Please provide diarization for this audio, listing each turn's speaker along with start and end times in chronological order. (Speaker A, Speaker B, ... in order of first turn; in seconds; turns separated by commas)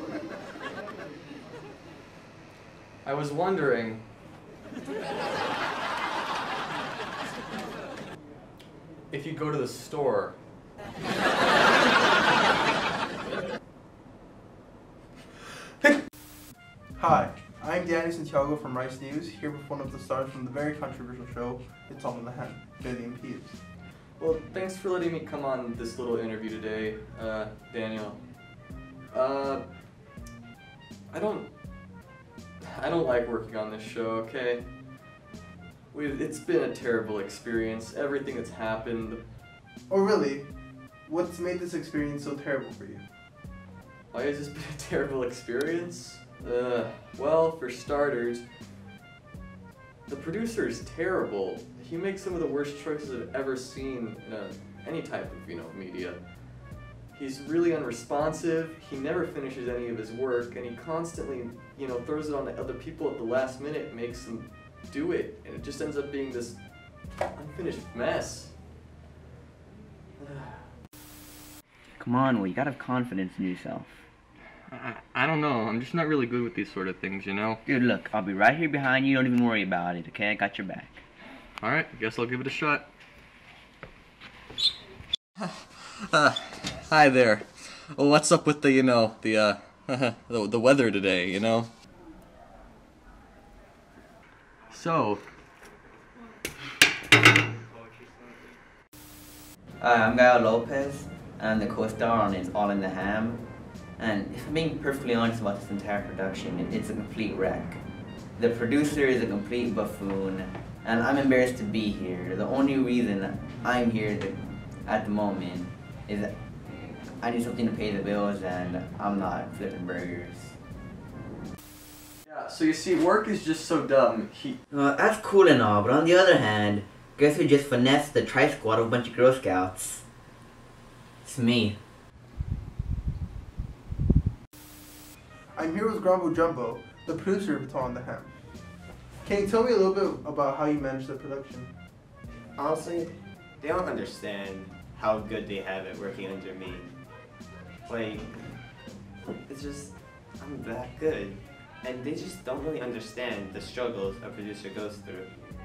Speaker A: 3.0-4.0, Speaker A: 9.1-10.4, Speaker B: 16.9-23.6, Speaker A: 24.2-28.2, Speaker A: 29.1-29.6, Speaker A: 31.1-31.5, Speaker A: 32.6-34.7, Speaker A: 35.9-39.2, Speaker B: 39.9-40.5, Speaker B: 41.0-43.0, Speaker A: 44.1-48.4, Speaker A: 50.1-56.3, Speaker A: 57.1-66.7, Speaker A: 67.3-68.5, Speaker A: 70.2-70.7, Speaker C: 72.0-73.9, Speaker A: 74.7-77.6, Speaker C: 77.7-81.0, Speaker A: 81.6-82.9, Speaker A: 85.4-91.7, Speaker A: 94.7-95.2, Speaker C: 99.8-103.4, Speaker C: 104.0-107.8, Speaker C: 108.4-116.3, Speaker C: 117.2-120.5, Speaker A: 122.2-124.6, Speaker C: 124.7-130.0, Speaker C: 131.2-131.8, Speaker B: 135.6-138.3, Speaker B: 139.2-141.7, Speaker D: 142.6-146.9, Speaker D: 147.8-148.3, Speaker D: 149.5-155.3